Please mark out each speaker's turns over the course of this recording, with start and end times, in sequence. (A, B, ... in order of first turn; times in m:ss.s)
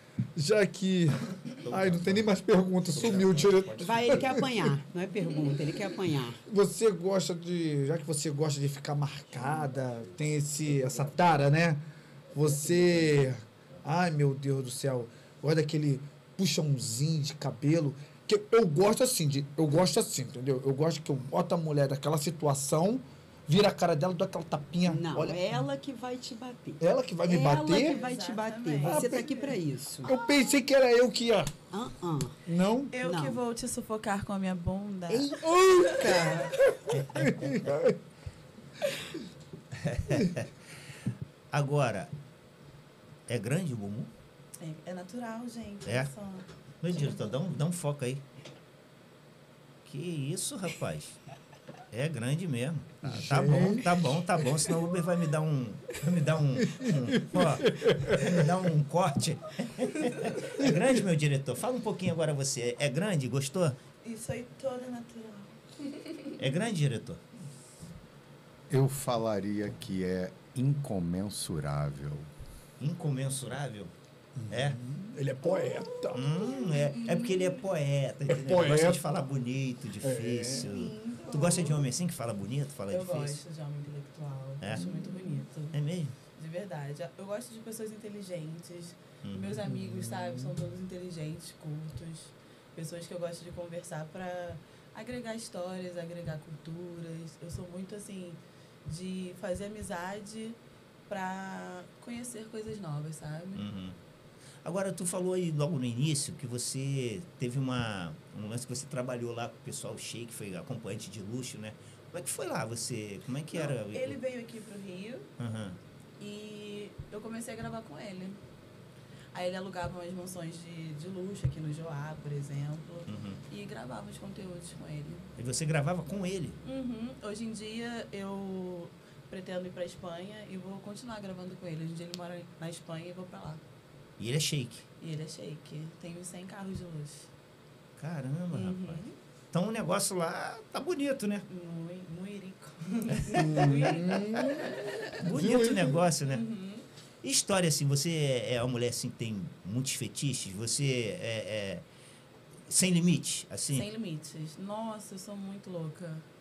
0:00.4-0:04.7 A
0:01.6-0:04.5 B
0:03.8-0:06.4 C
0:06.4-0:11.8 A
0:12.3-0:25.6 A
0:24.8-0:30.1 C
0:26.8-0:28.0 A
0:27.6-0:29.6 D
0:28.8-0:29.3 A
0:30.0-0:31.5 A
0:31.7-0:32.4 C
0:32.4-0:32.9 A
0:32.9-0:36.4 D
0:33.0-0:33.4 C
0:35.1-0:36.5 C
0:35.6-0:36.1 A
0:36.9-0:37.9 B
0:37.1-0:38.0 A
0:39.7-0:40.5 B
0:41.5-0:42.1 B
0:43.3-0:44.1 B
0:44.6-0:47.4 D
0:46.8-0:48.2 B
0:49.8-0:51.2 B
0:51.9-1:03.8 B
0:53.0-0:53.9 A
0:56.6-0:58.5 A
1:04.0-1:06.3 D
1:06.4-1:07.2 B
1:08.7-1:12.3 E
1:12.8-1:13.9 B
1:14.4-1:16.2 A
1:14.5-1:14.8 B
1:15.4-1:17.6 D
1:16.1-1:23.4 B
1:18.3-1:19.1 A
1:20.0-1:20.7 A
1:20.4-1:21.9 D
1:22.9-1:25.8 D
1:24.6-1:24.9 B
1:24.8-1:25.0 A
1:25.7-1:26.1 B
1:26.3-1:43.7 D
1:29.2-1:29.6 B
1:29.7-1:30.5 A
1:43.6-1:44.0 B
1:44.6-1:54.2 B
1:53.5-1:55.3 D
1:55.4-1:55.8 B
1:56.2-1:58.4 D
1:59.3-2:05.3 D
2:03.1-2:03.4 B
2:05.4-2:06.6 B
2:06.6-2:13.6 D
2:14.2-2:14.9 B
2:15.0-2:17.3 D
2:18.0-2:21.4 B
2:18.5-2:19.1 D
2:21.5-2:25.0 D
2:23.3-2:24.8 A
2:25.2-2:26.4 B
2:25.3-2:26.0 A
2:26.2-2:26.8 D
2:27.2-2:31.8 B
2:32.7-2:33.9 B
2:33.7-2:36.2 D